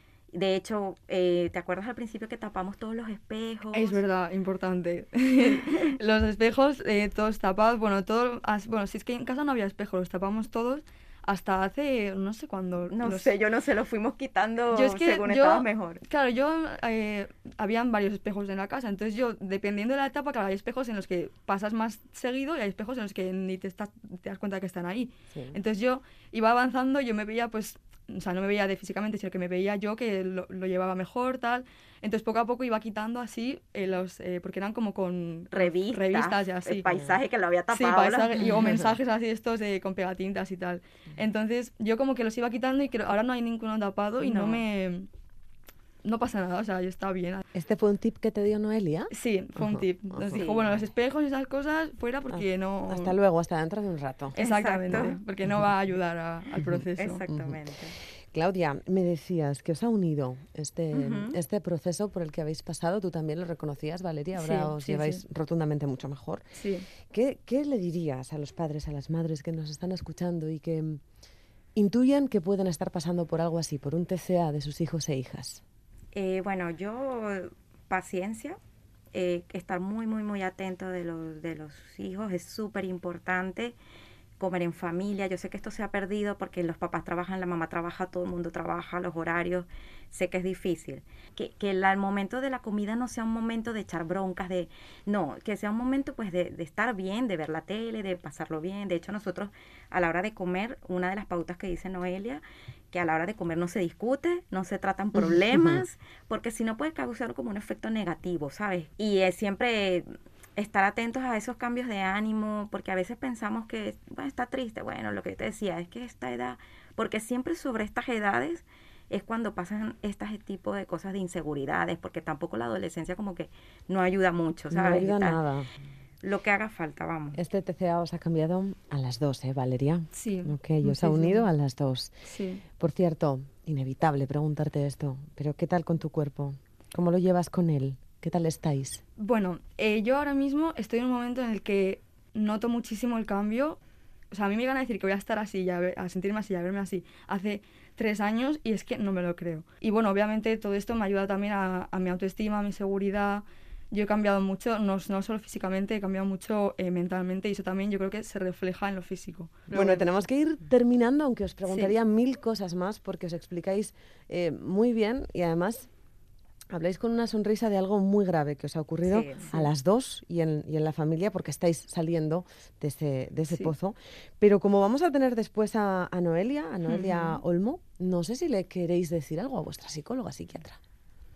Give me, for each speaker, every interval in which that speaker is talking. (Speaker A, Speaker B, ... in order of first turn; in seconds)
Speaker A: 0.3-4.0, 12.9-16.0, 35.5-38.8, 50.3-50.8, 54.3-55.2, 57.0-58.0, 60.9-61.4, 76.1-78.6, 79.1-83.8, 84.4-125.4, 126.2-127.4, 169.0-169.5
Speaker B: 3.7-13.3, 14.7-36.8, 37.7-45.1, 46.0-47.4, 49.1-53.1, 54.4-57.2, 64.3-65.2, 66.6-66.9, 130.1-131.4, 132.3-132.6, 139.2-143.8, 144.3-160.0, 161.7-161.9, 176.8-177.4
Speaker C: 36.9-37.1, 38.5-39.0, 44.2-44.6, 47.5-50.4, 52.3-54.3, 57.3-57.6, 58.3-66.5, 67.0-71.0, 71.7-75.6, 105.2-105.8, 124.7-125.7, 127.3-132.1, 132.8-139.0, 159.7-165.9, 166.7-180.8